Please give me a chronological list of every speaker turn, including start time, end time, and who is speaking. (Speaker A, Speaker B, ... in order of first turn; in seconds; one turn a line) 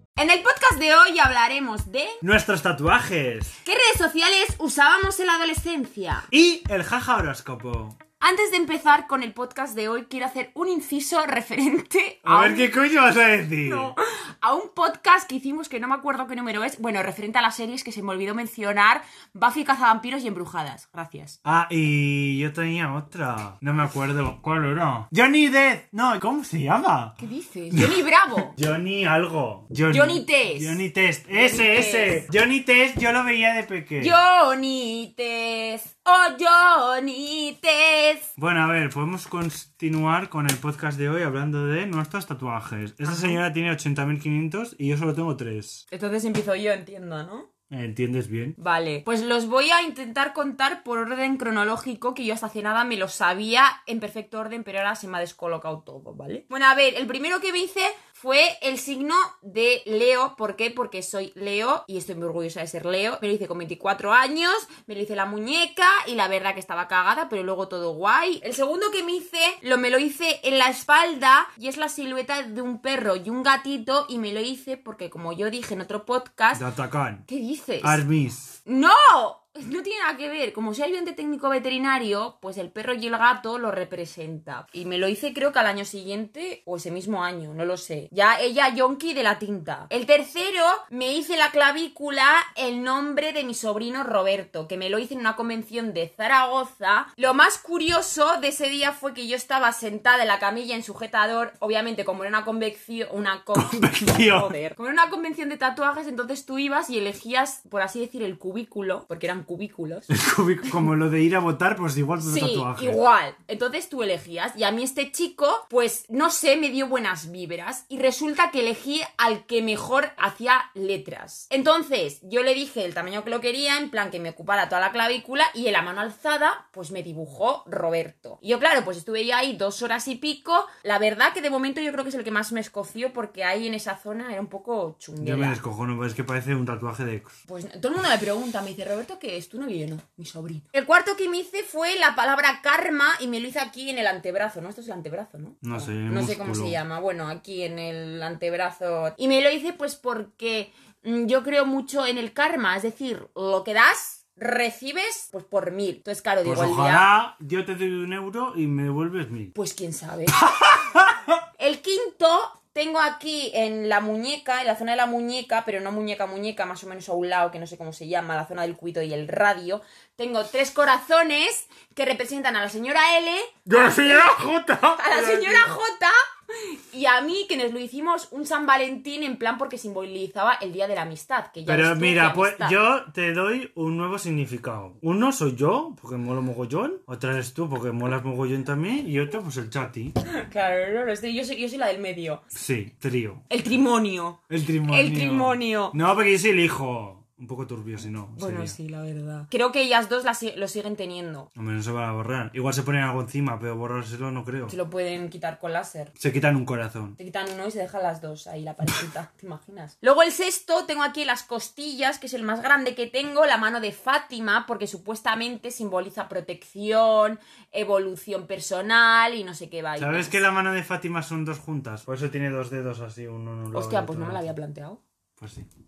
Speaker A: 0.2-2.2
Speaker B: 2.2-3.5
Speaker A: 3.6-6.3
Speaker B: 6.3-8.0
Speaker A: 8.2-12.7
Speaker B: 12.2-13.9
Speaker A: 13.6-21.4
Speaker B: 21.4-27.2
Speaker A: 27.2-28.6
Speaker B: 27.7-28.0
Speaker B: 28.6-34.2
Speaker A: 29.9-30.8
Speaker A: 31.3-32.2
Speaker A: 34.0-38.3
Speaker B: 38.4-45.8
Speaker A: 43.0-43.4
Speaker A: 45.9-47.5
Speaker B: 47.7-48.6
Speaker A: 48.6-76.7
Speaker B: 76.5-77.2
Speaker A: 77.3-78.0
Speaker B: 77.8-78.6
Speaker A: 78.6-110.1
Speaker B: 103.5-104.5
Speaker B: 110.1-113.0
Speaker A: 112.2-135.6
Speaker B: 135.2-137.4
Speaker A: 137.5-157.1
Speaker B: 145.6-146.8
Speaker B: 156.4-159.5
Speaker A: 159.5-160.5
Speaker B: 160.4-161.3
Speaker A: 161.6-174.3
Speaker B: 173.7-175.7
Speaker A: 175.0-176.2
Speaker A: 176.7-182.8
Speaker B: 181.7-190.2
Speaker A: 190.2-192.4
Speaker B: 192.5-193.4
Speaker A: 193.5-195.9
Speaker B: 194.5-198.8
Speaker A: 198.3-201.5
Speaker B: 201.6-204.7
Speaker A: 204.7-206.1
Speaker B: 206.2-207.2
Speaker A: 207.2-220.4
Speaker B: 220.0-224.5
Speaker A: 223.7-225.0
Speaker B: 225.4-225.7